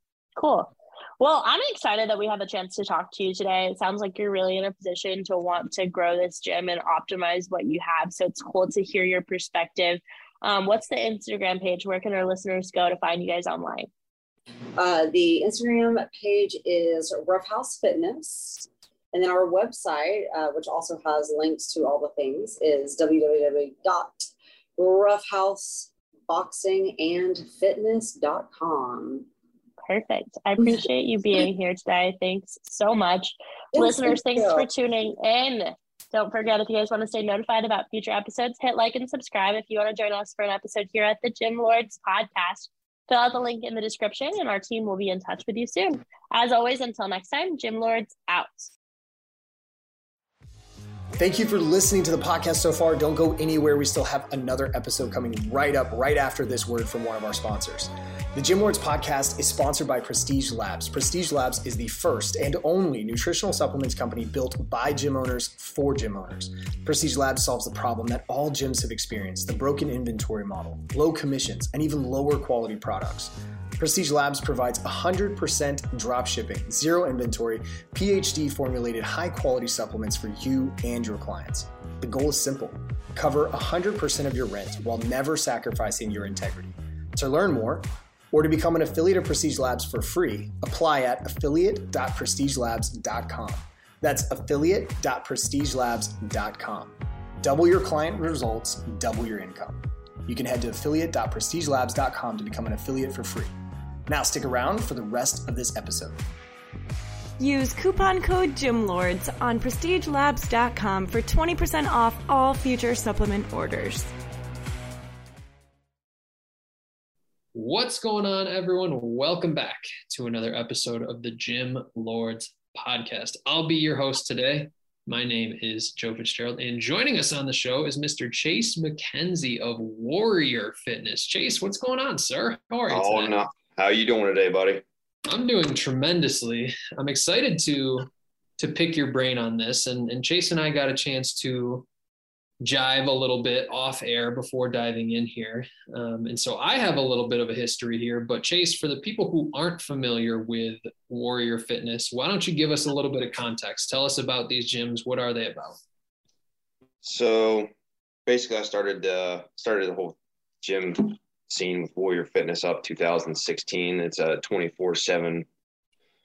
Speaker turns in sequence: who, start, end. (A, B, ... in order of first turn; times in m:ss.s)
0:00.4-0:13.9 A
0:14.8-0:29.3 B
0:29.9-0:48.7 A
0:33.7-0:34.7 B
0:51.2-1:43.5 C
1:44.1-1:46.2 C
1:47.4-1:54.1 D
1:57.5-2:13.4 E
2:12.9-2:14.8 F
2:15.3-2:21.9 E
2:22.6-2:35.8 E
2:37.0-2:37.7 F
2:38.3-2:45.5 F